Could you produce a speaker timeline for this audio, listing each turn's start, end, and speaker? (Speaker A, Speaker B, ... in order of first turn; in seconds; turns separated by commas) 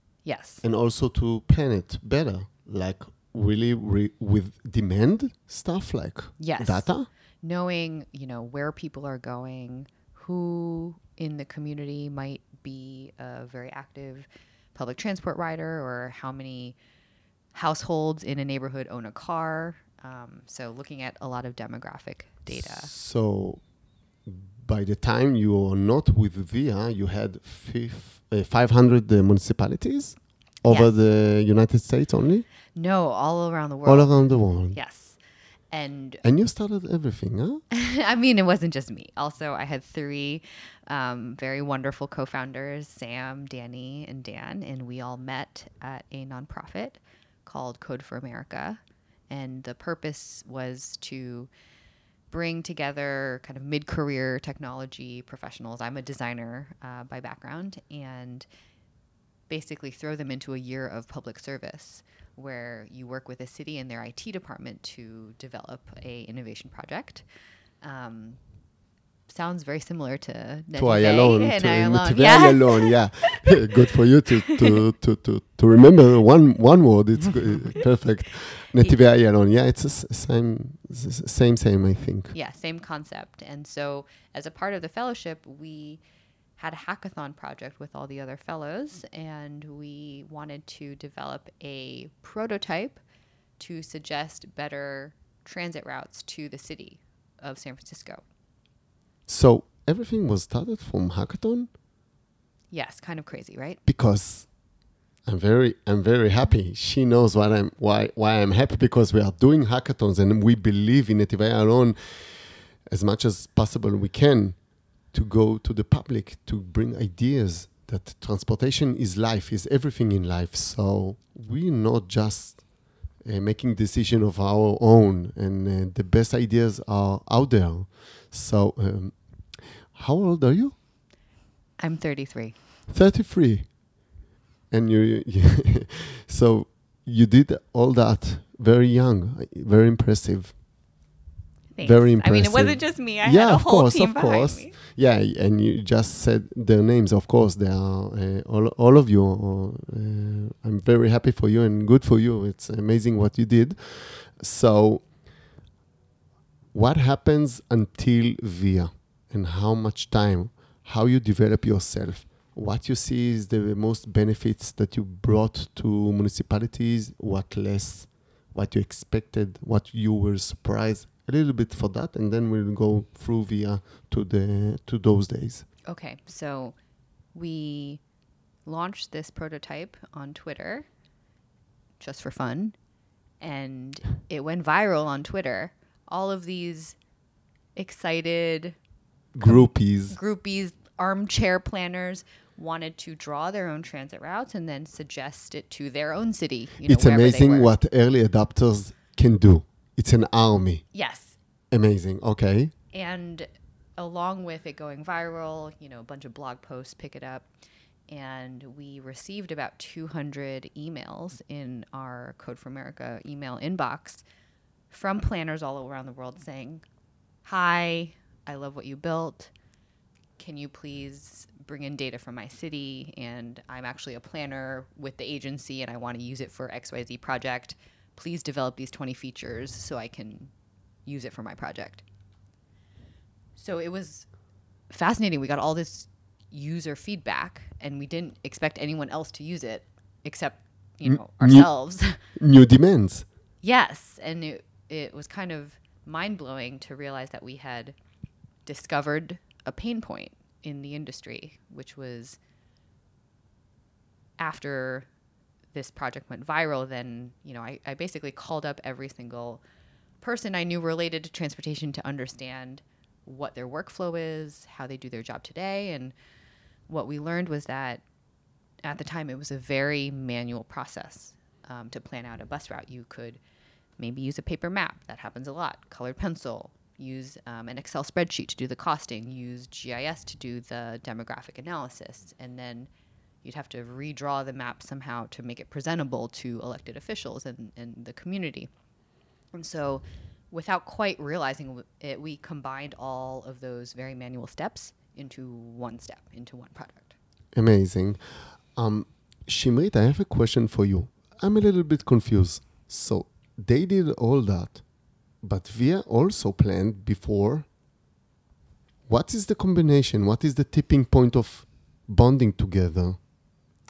Speaker A: 0.2-0.6, Speaker B: 0.6-7.1, Speaker A: 6.4-6.9, Speaker A: 7.4-16.8, Speaker A: 17.5-22.9, Speaker B: 22.5-23.7, Speaker B: 24.3-32.5, Speaker A: 30.7-30.9, Speaker A: 32.7-35.2, Speaker B: 33.9-34.8, Speaker A: 35.7-36.2, Speaker B: 36.2-37.6, Speaker A: 37.7-51.5, Speaker A: 52.3-58.5, Speaker A: 59.5-67.2, Speaker A: 67.8-68.4, Speaker A: 69.3-73.7, Speaker B: 70.8-82.3, Speaker A: 82.3-86.0, Speaker A: 86.6-93.0, Speaker A: 93.6-98.2, Speaker B: 99.3-101.7, Speaker A: 102.7-103.8, Speaker B: 103.8-104.5, Speaker B: 105.2-122.7, Speaker B: 123.2-130.8, Speaker A: 131.8-132.6, Speaker B: 132.9-133.7, Speaker B: 134.7-140.6, Speaker A: 141.7-144.8, Speaker B: 141.8-155.1, Speaker B: 156.7-175.7, Speaker A: 175.9-176.8, Speaker A: 177.3-178.0, Speaker A: 178.7-180.9, Speaker A: 182.0-182.8, Speaker A: 183.4-187.0, Speaker A: 187.8-188.8, Speaker B: 189.3-190.2, Speaker A: 189.4-197.7, Speaker B: 196.8-200.9, Speaker A: 200.9-201.4, Speaker B: 201.7-202.7, Speaker A: 202.9-207.5, Speaker A: 208.1-214.2, Speaker A: 214.9-216.8, Speaker A: 217.4-219.5, Speaker A: 220.4-230.5, Speaker A: 231.1-232.0, Speaker A: 233.6-234.3, Speaker A: 234.9-242.2, Speaker B: 241.0-241.7, Speaker B: 242.3-243.3, Speaker A: 243.6-248.0, Speaker A: 248.7-252.4, Speaker A: 254.4-255.1, Speaker A: 255.7-259.6, Speaker A: 260.2-266.1, Speaker A: 266.9-268.0, Speaker A: 268.8-273.4, Speaker A: 274.0-282.9, Speaker A: 283.4-288.7, Speaker A: 289.5-297.1, Speaker B: 297.5-304.8, Speaker B: 305.4-307.7, Speaker B: 309.1-313.2